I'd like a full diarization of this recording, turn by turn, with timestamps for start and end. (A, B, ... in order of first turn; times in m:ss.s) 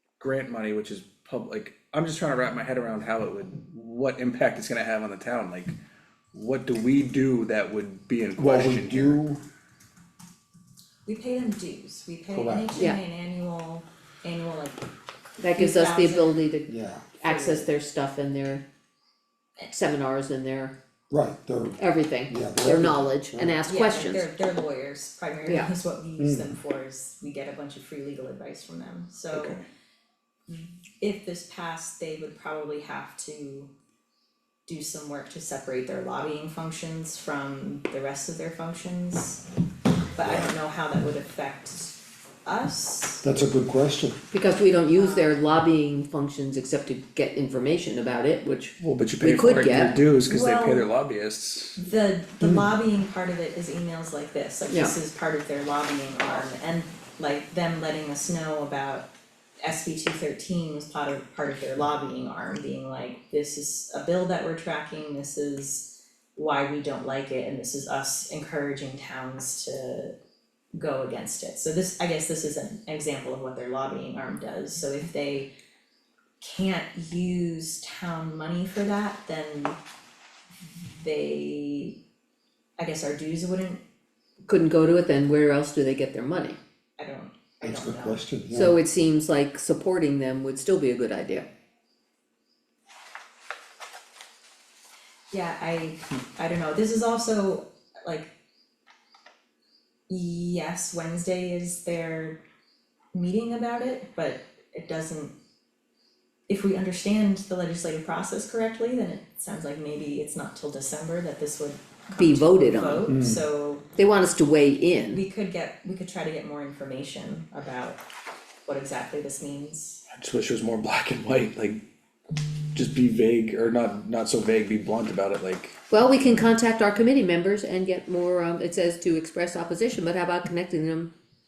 0:00.2-0:05.8 A
0:06.3-0:09.2 A
0:08.4-0:09.4 B
0:11.0-0:14.8 C
0:12.3-0:12.7 B
0:15.4-0:18.6 D
0:15.5-0:16.4 C
0:16.7-0:17.1 B
0:17.2-0:17.7 C
0:19.6-0:20.7 D
0:21.1-0:23.6 B
0:21.8-0:24.3 D
0:23.6-0:29.6 C
0:25.4-0:25.7 D
0:26.2-0:26.6 B
0:29.3-0:29.6 A
0:30.5-0:33.7 C
0:34.6-0:39.4 C
0:40.2-0:43.2 C
0:43.2-0:44.2 B
0:44.3-0:50.1 D
0:44.9-0:45.4 C
0:48.8-0:51.8 A
0:50.2-0:50.9 C
0:51.8-0:59.1 C
0:54.7-0:54.9 D
0:59.6-1:10.1 C
1:10.7-1:15.5 C
1:16.4-1:19.8 C
1:20.6-1:22.0 C
1:22.8-1:23.8 C
1:24.5-1:26.6 D
1:27.0-1:28.4 C
1:27.6-1:28.8 B
1:28.5-1:31.4 D
1:35.3-1:38.3 C
1:40.1-1:42.4 C
1:43.1-1:45.4 C
1:46.5-1:53.9 C
1:52.1-1:53.1 D
1:53.1-1:53.4 B
1:54.0-1:55.2 D
1:55.1-1:58.0 C
1:58.6-2:00.0 C
2:00.1-2:01.8 A
2:02.7-2:05.8 A
2:05.9-2:11.1 D